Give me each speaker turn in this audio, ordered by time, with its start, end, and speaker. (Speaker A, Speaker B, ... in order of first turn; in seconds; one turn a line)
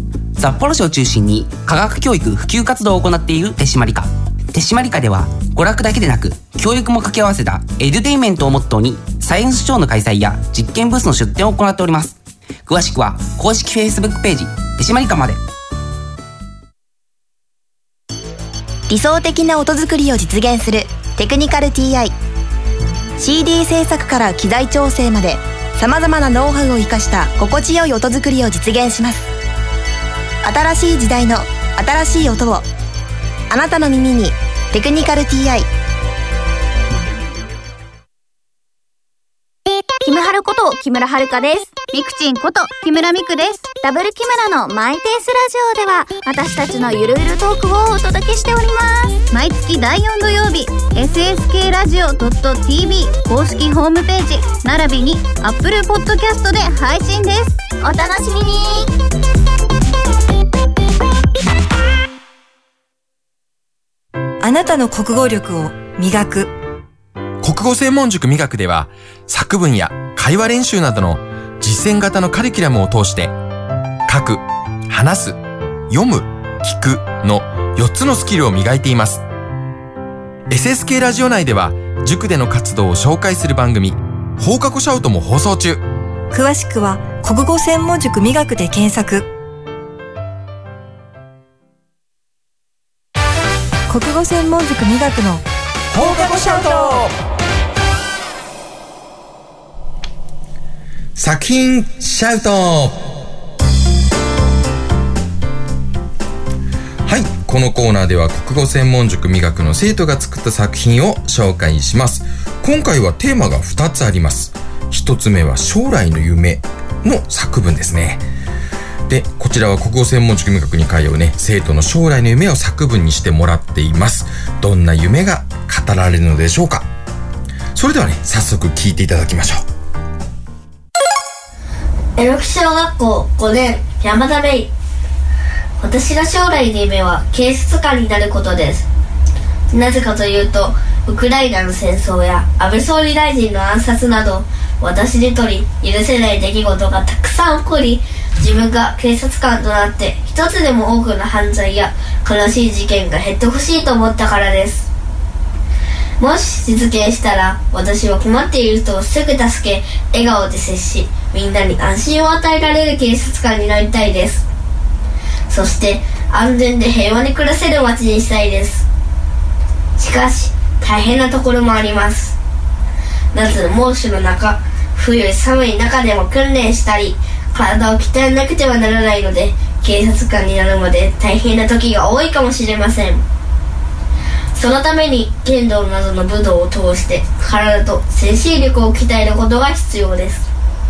Speaker A: 0.4-12.2
Speaker A: 12.7-15.4
Speaker B: 18.9-22.1
Speaker B: 23.2-29.3
Speaker B: 30.4-32.7
Speaker B: 33.5-35.7
Speaker C: 40.0-58.9
Speaker D: 64.4-66.5
Speaker E: 67.4-73.4
Speaker E: 74.1-79.2
Speaker E: 80.5-85.8
Speaker D: 86.3-89.3
Speaker D: 93.9-95.5
Speaker E: 95.9-97.2
Speaker D: 96.0-97.0
Speaker E: 101.2-103.1
Speaker E: 107.0-118.3
Speaker E: 119.1-126.9
Speaker E: 127.8-129.7
Speaker F: 132.2-134.7
Speaker F: 135.8-138.9
Speaker F: 139.7-154.9
Speaker F: 156.2-164.5
Speaker F: 165.5-168.8
Speaker F: 170.0-172.4
Speaker F: 173.3-183.2
Speaker F: 184.6-190.5